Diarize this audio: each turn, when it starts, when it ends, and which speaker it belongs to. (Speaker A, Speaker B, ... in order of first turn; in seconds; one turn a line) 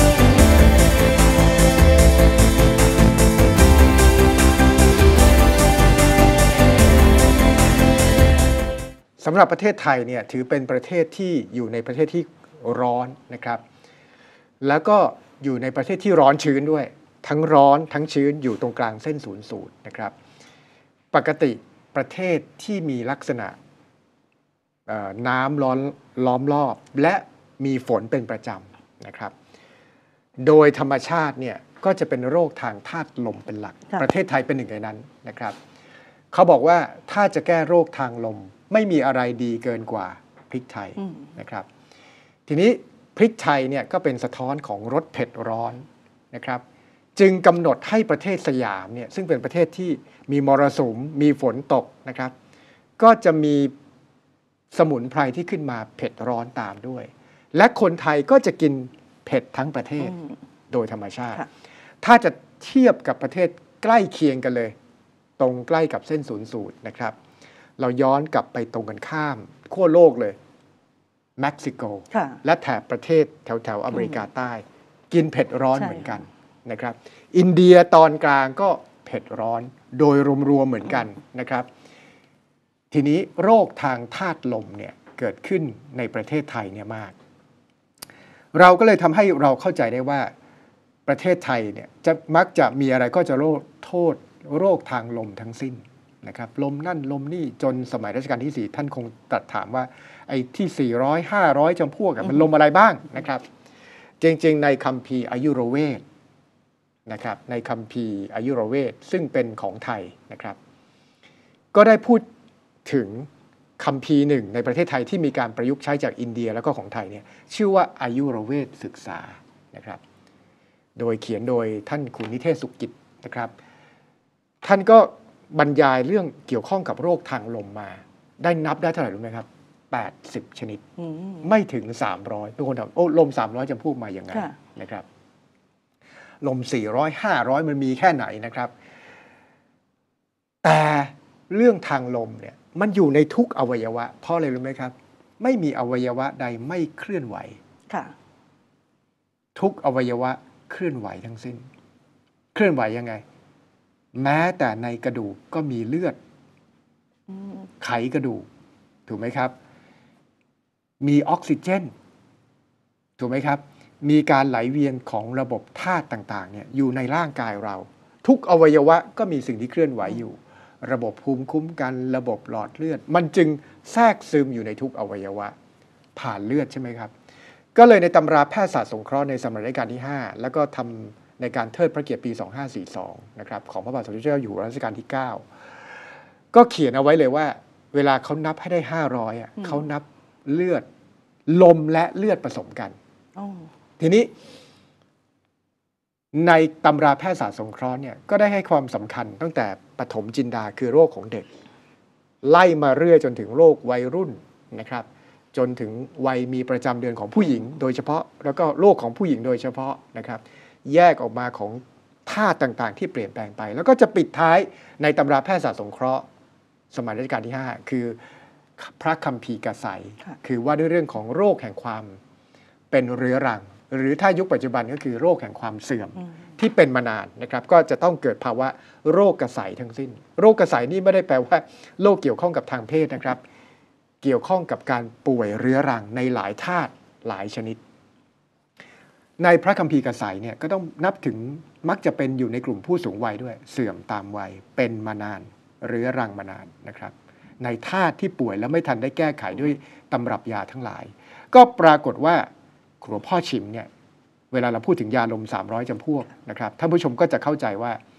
Speaker A: 9.2-13.6
Speaker A: 14.6-20.1
Speaker A: 21.1-23.6
Speaker A: 24.9-29.3
Speaker A: 30.4-35.6
Speaker A: 36.3-41.7
Speaker A: 42.5-46.6
Speaker A: 47.1-52.3
Speaker A: 53.0-53.7
Speaker A: 54.7-60.2
Speaker A: 60.7-61.5
Speaker A: 62.0-64.7
Speaker A: 65.4-67.2
Speaker A: 67.8-70.4
Speaker A: 71.4-81.7
Speaker B: 72.1-72.4
Speaker B: 75.8-76.1
Speaker A: 82.9-87.1
Speaker A: 88.5-90.3
Speaker A: 91.0-103.5
Speaker A: 104.2-106.0
Speaker A: 107.1-110.6
Speaker A: 111.7-112.2
Speaker A: 112.8-120.0
Speaker A: 121.0-123.5
Speaker A: 124.6-130.9
Speaker B: 131.0-131.4
Speaker A: 131.4-135.1
Speaker A: 136.4-138.7
Speaker A: 140.6-147.6
Speaker B: 147.9-148.1
Speaker A: 149.5-151.7
Speaker A: 152.5-153.2
Speaker A: 154.1-156.2
Speaker B: 157.3-157.7
Speaker A: 157.8-158.4
Speaker A: 159.1-159.5
Speaker A: 161.0-161.9
Speaker A: 163.2-175.5
Speaker A: 176.2-177.1
Speaker A: 177.7-185.4
Speaker A: 186.5-190.8
Speaker A: 191.5-192.9
Speaker B: 193.3-193.7
Speaker A: 194.0-194.3
Speaker A: 196.3-201.5
Speaker A: 202.4-216.2
Speaker A: 216.9-218.2
Speaker A: 218.8-222.2
Speaker A: 222.9-233.4
Speaker A: 234.2-237.8
Speaker A: 239.4-252.5
Speaker A: 253.0-253.9
Speaker A: 254.5-258.0